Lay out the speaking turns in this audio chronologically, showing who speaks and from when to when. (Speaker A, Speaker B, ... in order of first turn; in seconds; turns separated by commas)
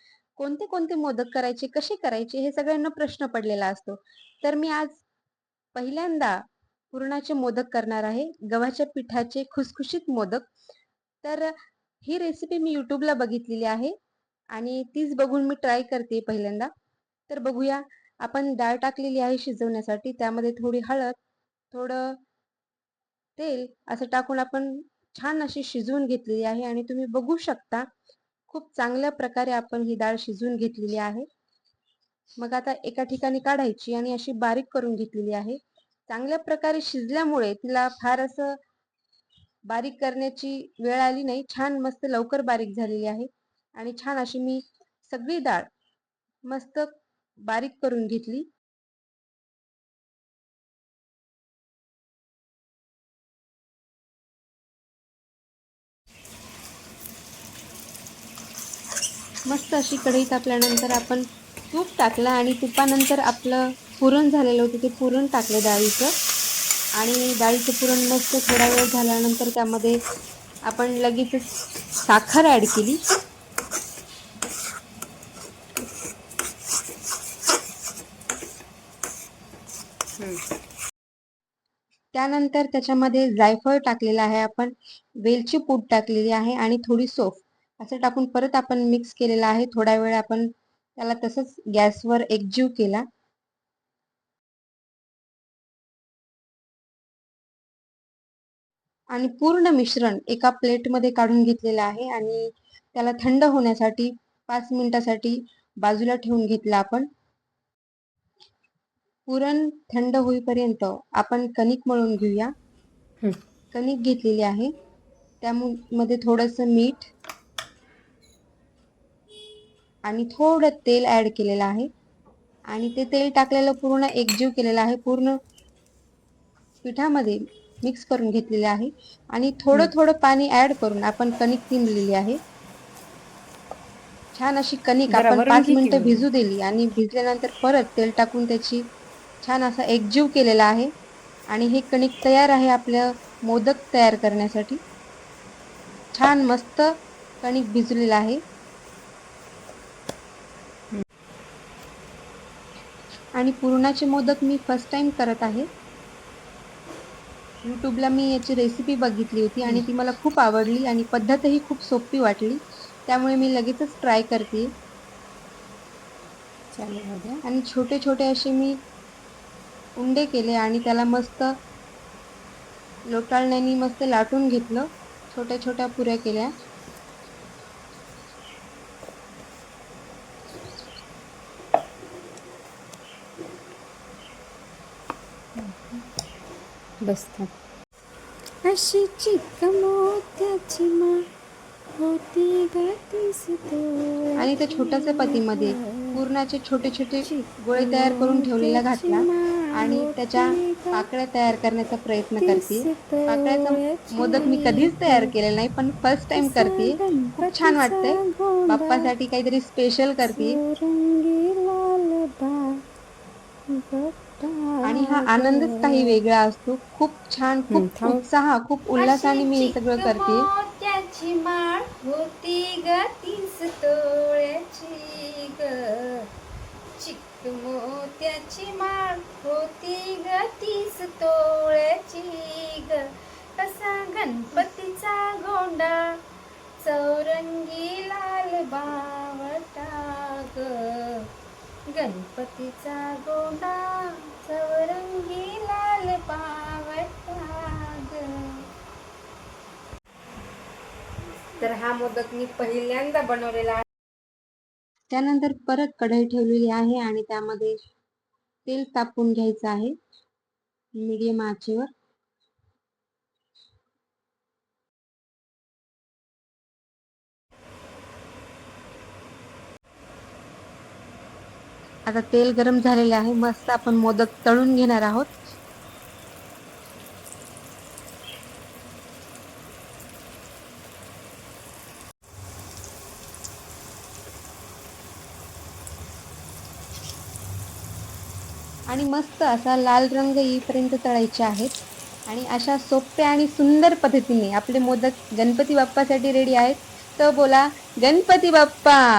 Speaker A: 0.4-5.0, Speaker A: 5.8-6.4, Speaker A: 6.9-10.5, Speaker A: 11.2-11.5, Speaker A: 12.1-13.9, Speaker A: 14.6-16.7, Speaker A: 17.3-21.2, Speaker A: 21.7-22.2, Speaker A: 23.4-27.9, Speaker A: 28.5-31.3, Speaker A: 32.4-35.6, Speaker A: 36.1-38.6, Speaker A: 39.7-45.7, Speaker A: 46.5-46.9, Speaker A: 47.4-48.5, Speaker A: 59.5-66.1, Speaker A: 67.0-70.0, Speaker A: 70.7-71.5, Speaker A: 72.1-73.0, Speaker A: 82.1-93.1, Speaker A: 99.1-107.1, Speaker A: 109.3-112.5, Speaker A: 113.7-114.7, Speaker A: 115.4-117.1, Speaker A: 120.1-121.9, Speaker A: 122.7-125.4, Speaker A: 126.8-132.4, Speaker A: 134.3-138.8, Speaker B: 135.1-136.2, Speaker A: 139.4-140.9, Speaker A: 141.5-144.8, Speaker A: 146.2-148.4, Speaker A: 153.4-155.7, Speaker A: 157.7-164.7, Speaker B: 166.7-167.4, Speaker A: 167.5-168.8, Speaker A: 170.0-171.5, Speaker A: 173.1-176.5, Speaker B: 185.6-186.1, Speaker B: 187.0-187.5, Speaker B: 188.6-191.2, Speaker B: 192.0-196.2, Speaker A: 194.4-210.6, Speaker B: 197.2-201.1, Speaker B: 202.4-205.3, Speaker B: 206.4-209.1, Speaker B: 210.2-212.8, Speaker B: 213.7-216.2, Speaker A: 214.8-220.5, Speaker B: 217.7-218.2, Speaker B: 219.0-226.3, Speaker B: 227.0-236.2, Speaker B: 236.8-241.3, Speaker B: 241.9-248.6, Speaker A: 251.6-253.8, Speaker A: 255.1-257.8, Speaker A: 258.6-259.9, Speaker A: 261.0-261.9, Speaker A: 272.1-275.3, Speaker A: 288.9-291.7, Speaker A: 292.3-299.0